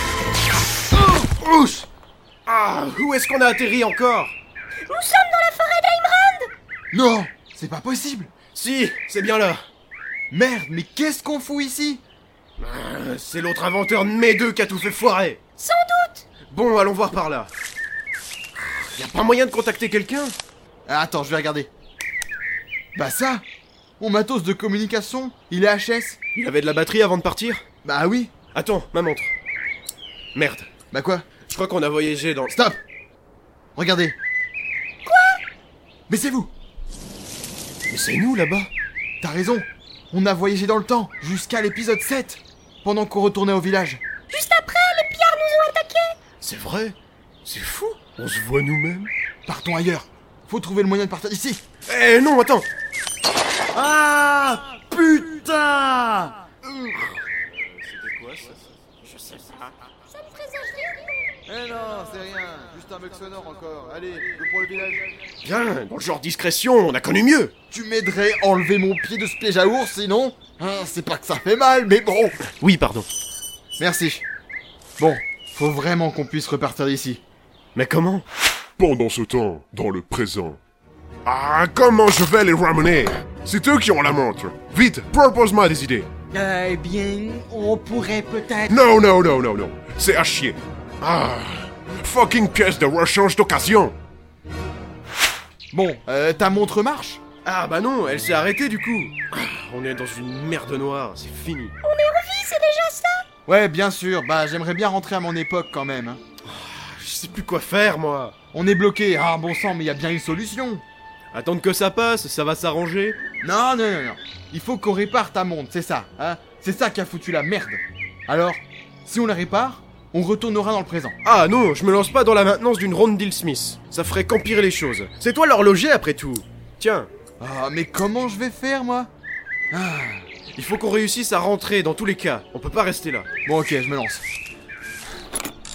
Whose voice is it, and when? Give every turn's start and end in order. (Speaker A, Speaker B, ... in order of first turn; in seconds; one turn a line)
Speaker A: 2.5-4.3
Speaker B: 4.8-6.5
Speaker C: 6.9-8.3
Speaker A: 8.5-9.6
Speaker C: 10.3-12.0
Speaker A: 12.6-15.4
Speaker B: 15.6-16.2
Speaker A: 16.5-17.5
Speaker A: 18.6-20.4
Speaker C: 20.9-21.7
Speaker C: 22.9-23.4
Speaker C: 24.0-26.2
Speaker A: 26.4-27.6
Speaker C: 27.8-28.3
Speaker A: 28.5-29.3
Speaker A: 30.3-30.7
Speaker C: 30.9-31.3
Speaker A: 31.5-32.5
Speaker C: 32.5-32.8
Speaker C: 33.8-34.2
Speaker B: 35.1-35.4
Speaker C: 36.1-36.5
Speaker A: 37.9-38.7
Speaker C: 39.2-44.0
Speaker B: 44.3-46.1
Speaker A: 46.4-49.1
Speaker C: 49.5-51.6
Speaker A: 51.9-52.7
Speaker C: 53.7-56.4
Speaker A: 57.6-58.6
Speaker B: 60.4-61.3
Speaker C: 61.5-65.1
Speaker A: 65.4-67.5
Speaker C: 67.7-72.5
Speaker A: 72.6-73.1
Speaker C: 73.8-74.2
Speaker C: 75.0-77.2
Speaker A: 77.8-78.2
Speaker D: 78.8-80.6
Speaker D: 81.2-86.1
Speaker E: 86.3-88.8
Speaker D: 88.7-94.0
Speaker C: 95.7-97.2
Speaker A: 97.5-101.8
Speaker B: 101.8-103.2
Speaker C: 103.5-106.2
Speaker A: 106.4-108.3
Speaker C: 108.5-110.8
Speaker A: 111.3-113.2
Speaker C: 113.4-121.2
Speaker A: 121.2-127.1
Speaker C: 127.4-129.1
Speaker C: 129.7-130.3
Speaker A: 130.5-133.3
Speaker C: 133.4-134.2